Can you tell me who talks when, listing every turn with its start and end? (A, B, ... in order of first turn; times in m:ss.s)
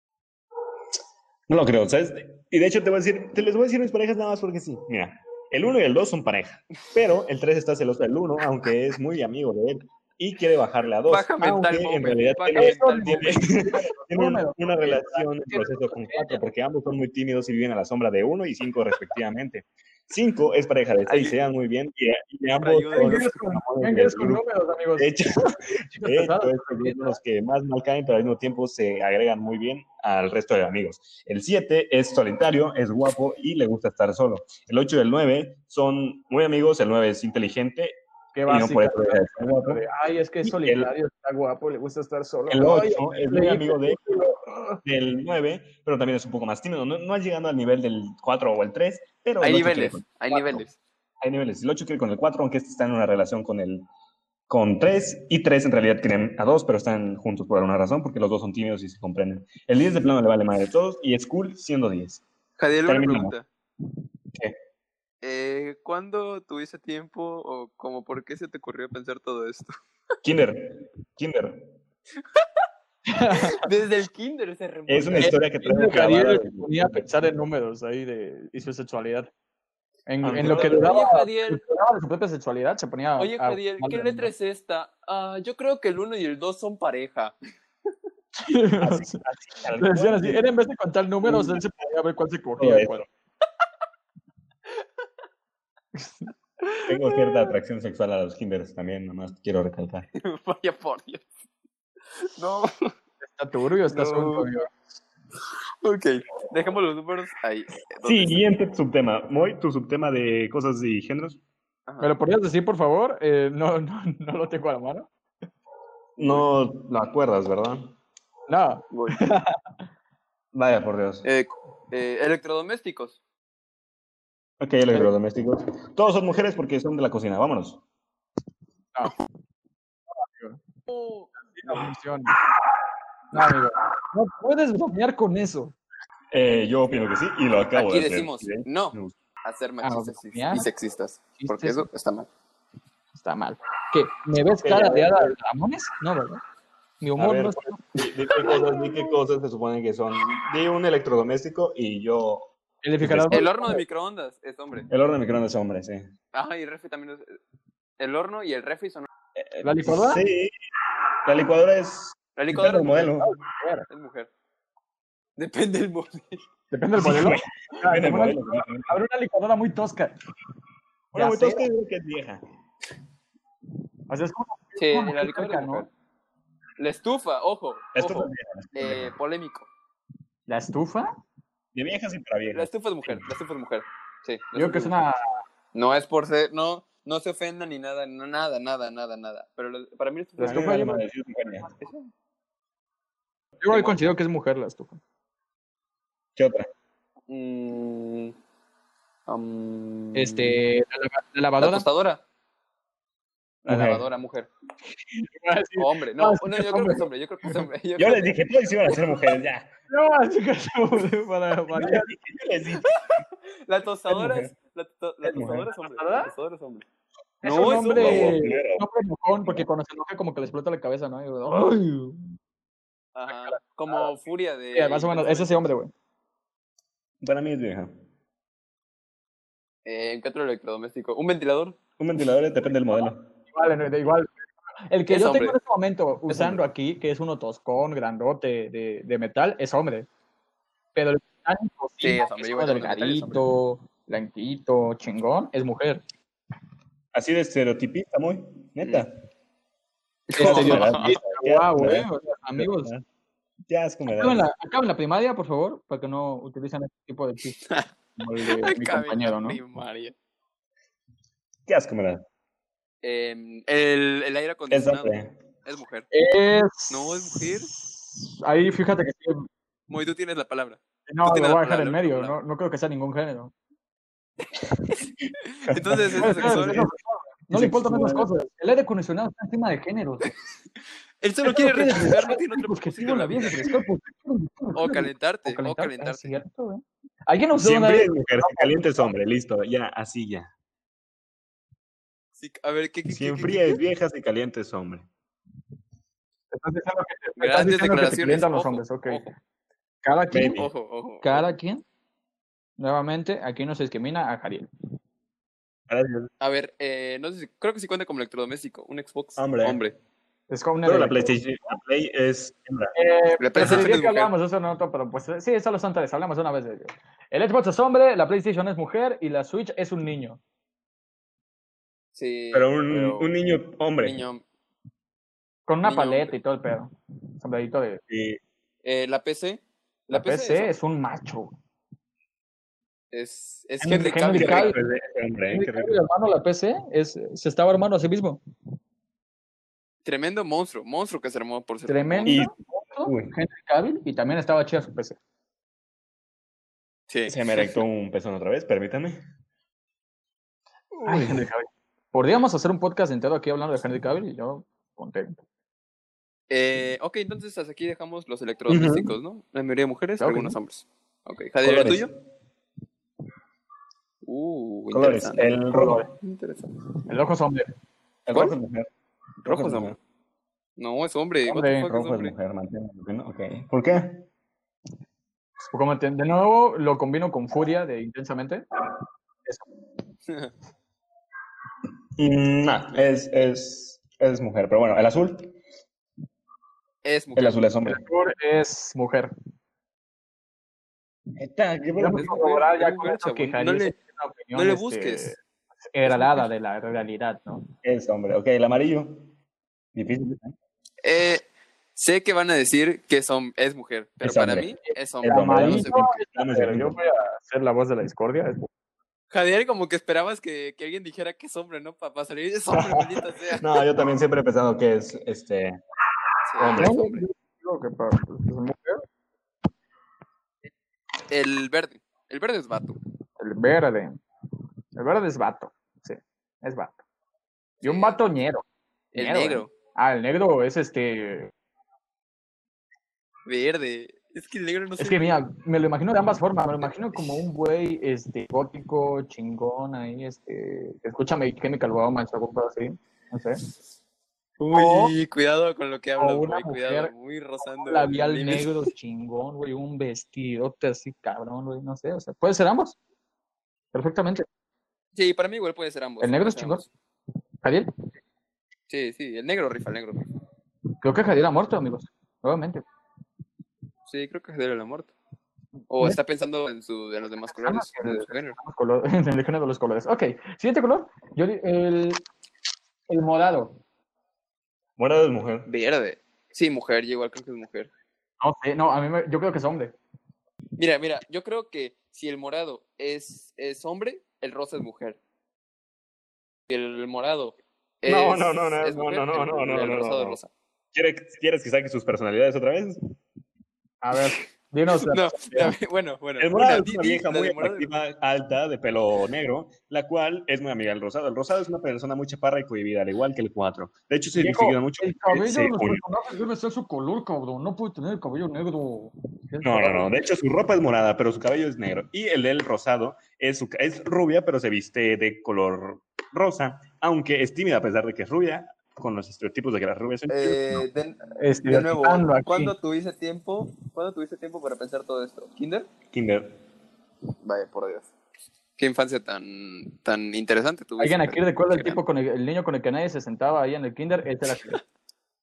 0:01.5-0:24.4 A
0:11.1-0:13.4 B
0:12.6-0:16.4 C
0:21.1-0:21.3 B
0:22.6-0:23.3 B
0:22.9-0:27.2 C
0:25.0-0:39.8 A
0:38.3-0:44.8 C
0:40.4-0:40.9 A
0:42.5-0:44.0 A
0:44.8-0:50.6 A
0:49.4-0:50.7 B
0:51.2-0:53.9 A
0:54.5-1:02.2 A
1:02.6-1:03.4 B
1:02.8-1:03.3 A
1:05.2-1:09.7 B
1:10.2-1:11.6 A
1:13.1-1:13.6 C
1:13.3-1:15.4 B
1:14.9-1:17.2 A
1:15.2-1:19.3 C
1:20.1-1:24.3 C
1:20.2-1:20.9 A
1:20.4-1:21.6 B
1:23.2-1:27.3 B
1:28.4-1:29.2 C
1:28.8-1:30.5 A
1:29.8-1:33.0 C
1:31.2-1:31.6 A
1:32.6-1:33.0 A
1:35.9-1:36.3 C
1:36.9-1:40.1 A
1:40.1-1:41.2 B
1:42.4-1:42.9 B
1:43.2-1:44.8 C
1:43.9-1:44.5 B
1:45.8-1:48.5 B
1:48.0-1:51.4 A
1:51.9-1:52.1 B
1:52.0-1:55.1 C
1:56.2-1:58.0 A
1:58.5-1:59.6 C
1:58.9-1:59.2 B
2:00.5-2:01.2 A
2:01.2-2:03.2 B
2:04.6-2:07.8 A
2:10.2-2:10.6 C
2:10.9-2:11.3 B
2:11.4-2:12.4 C
2:13.3-2:15.8 C
2:16.3-2:19.2 A
2:17.7-2:22.3 B
2:19.8-2:20.7 C
2:21.4-2:21.8 C
2:23.1-2:26.4 C
2:24.6-2:25.3 A
2:27.0-2:27.8 C
2:27.2-2:33.8 A
2:32.8-2:33.7 C
2:33.3-2:34.9 B
2:34.9-2:36.1 A
2:36.3-2:37.4 B
2:38.0-2:39.0 B
2:39.4-2:40.5 A
2:39.6-2:40.2 C
2:41.2-2:43.3 A
2:42.4-2:43.2 B
2:43.2-2:43.8 C
2:43.9-2:44.3 B
2:45.4-2:46.4 B
2:46.7-2:50.2 C
2:47.0-2:48.9 A
2:51.1-2:51.6 C
2:51.1-2:52.4 A
2:54.1-2:55.9 C
2:54.8-2:55.9 B
2:56.8-2:59.7 B
2:57.9-2:59.1 A
3:00.5-3:01.1 C
3:01.7-3:03.3 A
3:02.5-3:05.0 B
3:04.6-3:05.4 C
3:05.7-3:10.9 B
3:10.4-3:11.0 C
3:10.4-3:11.7 A
3:11.6-3:12.1 B
3:13.6-3:15.0 C
3:13.7-3:14.1 B
3:16.4-3:16.7 A
3:17.3-3:18.3 B
3:19.3-3:20.6 B
3:20.1-3:21.9 C
3:21.6-3:22.2 B
3:23.6-3:24.5 B
3:23.6-3:24.0 A
3:25.2-3:27.6 C
3:25.8-3:28.3 B
3:28.0-3:29.7 A
3:29.9-3:32.1 C
3:31.7-3:32.9 A
3:32.8-3:36.8 B
3:34.1-3:34.5 A
3:35.2-3:35.7 A
3:35.8-3:36.3 C
3:37.4-3:42.3 C
3:37.4-3:38.4 B
3:37.9-3:38.8 A
3:43.1-3:45.7 B
3:43.3-3:44.1 C
3:44.7-3:45.9 C
3:47.2-3:47.9 A
3:49.8-3:51.8 B
3:52.0-3:53.3 A
3:53.5-4:00.1 C
3:55.1-3:55.6 B
3:56.3-3:56.6 A
4:00.9-4:06.0 C
4:02.0-4:03.4 B
4:07.1-4:09.1 A
4:10.3-4:11.2 B
4:10.4-4:12.9 C
4:10.4-4:13.0 A
4:13.7-4:14.4 A
4:14.0-4:17.6 C
4:18.2-4:19.6 C
4:18.4-4:20.1 B
4:21.7-4:22.2 A
4:23.0-4:26.1 B
4:24.7-4:25.3 A
4:26.1-4:29.5 C
4:26.9-4:27.7 B
4:29.9-4:32.4 B
4:31.1-4:33.5 C
4:35.4-4:36.9 B
4:35.8-4:36.9 A
4:36.2-4:40.3 C
4:37.5-4:38.3 A
4:41.2-4:43.8 B
4:41.4-4:48.9 C
4:44.7-4:46.3 B
4:47.6-4:50.5 A
4:52.4-4:53.8 B
4:53.0-4:55.1 A
4:56.5-4:59.2 C
4:57.4-4:59.3 B
5:00.0-5:00.6 C
5:00.3-5:00.6 A
5:00.4-5:01.4 B
5:01.2-5:01.8 C
5:02.8-5:04.7 C
5:05.9-5:06.3 A
5:06.4-5:10.0 B
5:09.4-5:09.8 A
5:10.5-5:11.3 C
5:10.8-5:12.9 A
5:12.9-5:20.4 C
5:13.4-5:14.3 B
5:13.6-5:13.9 A
5:22.1-5:23.3 B
5:22.5-5:24.2 A
5:24.0-5:24.4 B
5:25.7-5:28.0 C
5:25.8-5:26.3 B
5:28.1-5:28.4 A
5:28.8-5:30.7 B
5:30.1-5:31.6 C
5:33.1-5:34.8 B
5:33.8-5:34.8 C
5:34.3-5:36.0 A
5:35.5-5:38.4 C
5:40.0-5:42.4 B
5:41.8-5:45.2 C
5:42.2-5:42.5 A
5:43.0-5:43.3 A
5:47.1-5:47.8 B
5:47.3-5:49.2 A
5:50.9-5:51.4 B
5:51.0-5:55.4 C
5:56.5-6:02.1 B
5:58.7-5:59.1 A
6:00.2-6:00.6 C
6:01.6-6:02.1 A
6:04.2-6:06.9 B
6:04.9-6:06.1 A
6:05.7-6:06.0 C
6:07.1-6:07.7 C
6:08.2-6:08.9 A
6:09.4-6:10.0 A
6:09.4-6:10.0 B
6:10.8-6:12.3 B
6:11.5-6:11.9 C
6:11.9-6:14.3 A
6:15.7-6:18.6 C
6:22.2-6:25.5 A
6:27.0-6:27.6 B
6:27.4-6:28.0 A
6:27.8-6:29.3 C
6:31.4-6:32.3 A
6:32.0-6:35.4 C
6:32.1-6:33.9 B
6:34.5-6:35.3 B
6:35.9-6:37.7 C
6:36.0-6:36.5 B
6:37.8-6:39.3 A
6:39.9-6:40.5 A
6:41.0-6:41.4 B
6:42.0-6:45.9 B
6:44.2-6:47.0 A
6:45.2-6:48.7 C
6:49.3-6:53.8 B
6:52.7-6:55.8 A
6:56.4-6:57.2 B
6:56.6-6:57.0 A
6:56.7-6:59.0 C
7:01.3-7:03.0 B
7:03.4-7:04.2 C
7:05.0-7:07.0 C
7:07.8-7:08.6 C
7:07.8-7:08.2 B
7:09.1-7:09.7 B
7:09.1-7:11.5 C
7:13.4-7:15.4 B
7:15.0-7:23.6 C
7:24.6-7:28.8 B
7:24.7-7:25.1 C
7:26.2-7:27.1 C
7:27.6-7:33.0 C
7:33.9-7:34.4 C
7:35.1-7:36.9 B
7:36.2-7:36.8 C
7:37.6-7:37.9 C
7:38.9-7:40.3 B
7:41.0-7:42.8 C
7:44.1-7:45.1 B
7:45.9-7:48.6 B
7:47.5-7:52.2 C
7:53.1-7:53.8 C
7:55.0-7:55.7 A
7:55.7-7:57.9 B
7:58.4-8:00.0 C
8:00.8-8:05.2 B
8:06.7-8:10.5 B
8:08.0-8:10.4 A
8:10.9-8:13.0 A
8:14.0-8:15.7 C
8:15.0-8:17.9 B
8:16.4-8:26.0 A
8:24.4-8:30.2 C
8:29.6-8:40.9 A
8:40.3-8:45.9 B
8:41.4-8:42.7 C
8:46.1-8:46.6 A
8:47.4-8:48.1 B
8:48.8-8:52.0 B
8:51.0-8:54.8 C